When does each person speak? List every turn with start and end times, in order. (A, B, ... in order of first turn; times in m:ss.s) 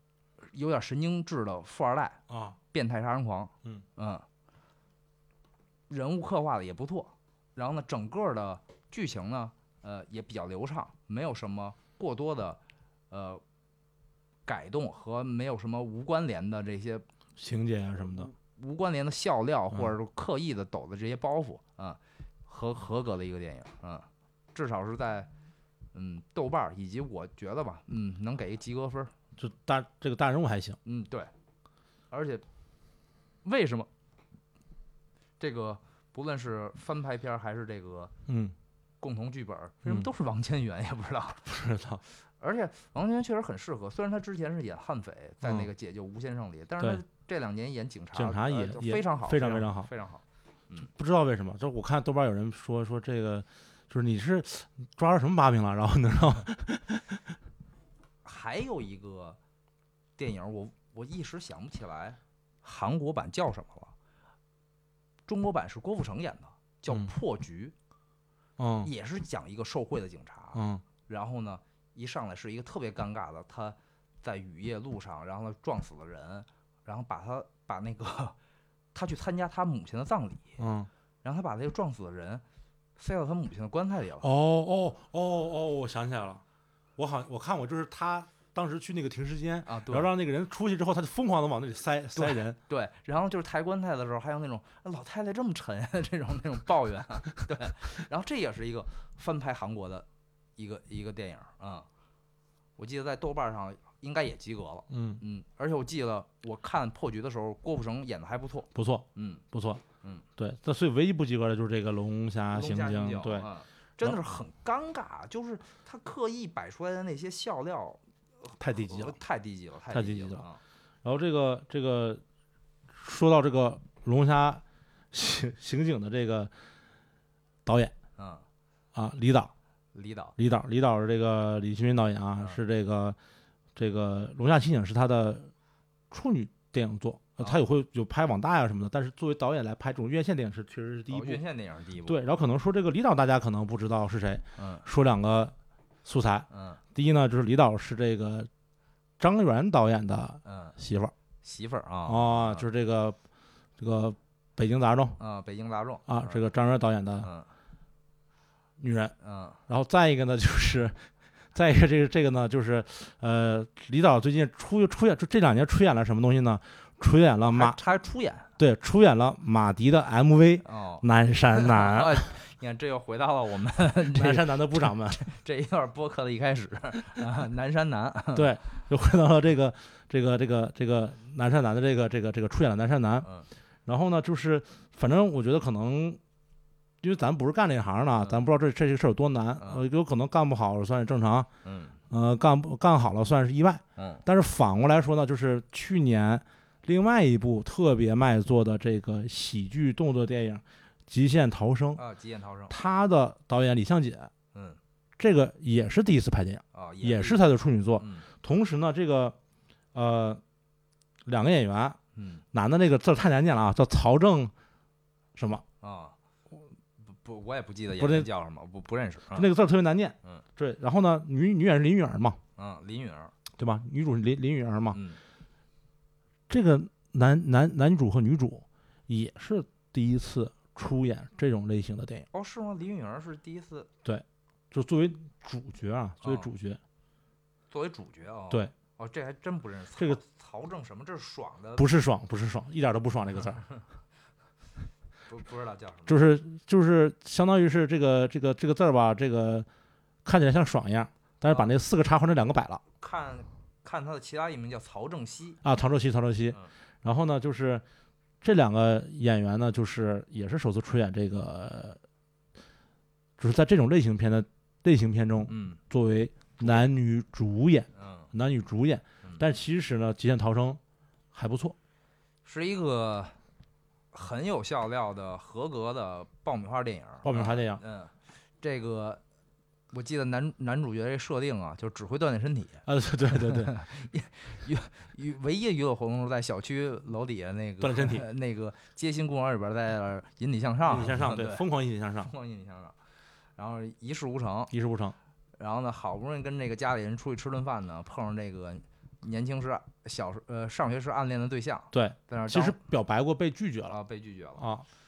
0:00.5-0:02.2 A
0:02.3-0:02.6 B
0:02.7-0:04.2 A
0:05.9-0:12.6 A
0:13.1-0:13.4 A
0:14.5-0:17.0 A
0:17.4-0:18.3 B
0:18.2-0:25.3 A
0:25.9-0:29.1 A
0:29.4-0:30.8 B
0:30.8-0:31.3 A
0:32.1-0:32.4 A
0:33.4-0:33.9 A
0:35.4-0:38.1 A
0:38.3-0:38.5 B
0:39.0-0:41.5 A
0:41.4-0:42.0 B
0:42.4-0:50.9 A
0:45.4-0:45.7 B
0:48.1-0:49.9 B
0:50.8-0:57.2 B
0:58.2-0:59.4 A
1:00.2-1:03.9 A
1:05.3-1:07.7 A
1:08.6-1:08.9 B
1:08.8-1:18.4 A
1:10.6-1:10.8 B
1:18.9-1:20.6 A
1:20.6-1:20.9 B
1:21.2-1:22.4 A
1:23.0-1:24.3 A
1:24.2-1:26.4 B
1:27.0-1:32.6 B
1:29.7-1:30.1 A
1:32.2-1:40.1 A
1:40.6-1:41.9 A
1:42.8-1:49.4 A
1:44.9-1:45.2 B
1:48.7-1:49.8 B
1:50.4-1:53.5 B
1:52.5-2:00.6 A
1:58.6-1:59.2 B
1:59.9-2:00.4 B
2:01.0-2:02.2 B
2:02.9-2:06.5 B
2:07.6-2:07.9 B
2:08.2-2:08.4 A
2:08.9-2:09.5 B
2:10.0-2:10.4 A
2:10.4-2:13.2 B
2:13.8-2:15.5 B
2:16.1-2:21.4 B
2:21.1-2:22.2 A
2:22.1-2:25.5 B
2:24.6-2:24.9 A
2:26.0-2:28.5 B
2:26.5-2:26.8 A
2:29.2-2:31.1 B
2:30.4-2:30.8 A
2:31.4-2:32.7 A
2:32.1-2:33.2 B
2:33.8-2:35.2 B
2:35.2-2:36.4 A
2:36.1-2:37.3 B
2:37.2-2:37.5 A
2:38.8-2:39.1 B
2:39.2-2:39.6 A
2:39.7-2:47.8 B
2:47.5-2:48.5 A
2:48.6-2:52.3 B
2:50.6-2:58.5 A
2:54.1-2:55.2 B
2:58.3-3:03.3 B
3:03.9-3:06.2 B
3:07.0-3:11.5 B
3:11.6-3:12.0 A
3:12.1-3:22.0 B
3:14.0-3:14.2 A
3:22.0-3:22.8 A
3:22.7-3:24.3 B
3:24.5-3:24.8 A
3:25.2-3:29.4 B
3:26.7-3:27.4 A
3:28.0-3:28.3 A
3:29.9-3:30.4 B
3:31.3-3:32.0 B
3:32.2-3:32.4 A
3:32.5-3:34.5 B
3:35.4-3:35.6 B
3:35.8-3:36.2 A
3:37.1-3:39.5 A
3:38.0-3:38.3 B
3:39.3-3:42.4 B
3:42.6-3:43.4 A
3:43.6-3:45.0 B
3:44.9-3:45.2 A
3:46.5-3:52.3 B
3:52.3-3:53.9 A
3:54.0-3:56.8 B
3:56.2-3:56.5 A
3:57.7-4:01.9 A
4:01.8-4:03.6 B
4:05.3-4:06.2 A
4:06.1-4:09.7 B
4:10.2-4:12.8 B
4:11.5-4:11.7 A
4:13.0-4:15.6 A
4:15.6-4:17.8 B
4:18.4-4:22.0 B
4:23.4-4:30.8 B
4:25.5-4:25.8 A
4:28.0-4:28.3 A
4:31.3-4:31.8 B
4:32.4-4:33.4 A
4:34.1-4:39.2 A
4:37.2-4:37.8 B
4:39.9-4:51.6 A
4:42.9-4:43.7 B
4:47.8-4:48.3 B
4:50.8-4:52.3 B
4:52.2-4:53.0 A
4:53.6-4:54.7 A
4:54.7-4:55.2 B
4:55.6-5:02.8 A
5:01.9-5:04.0 B
5:03.9-5:04.7 A
5:04.6-5:04.9 B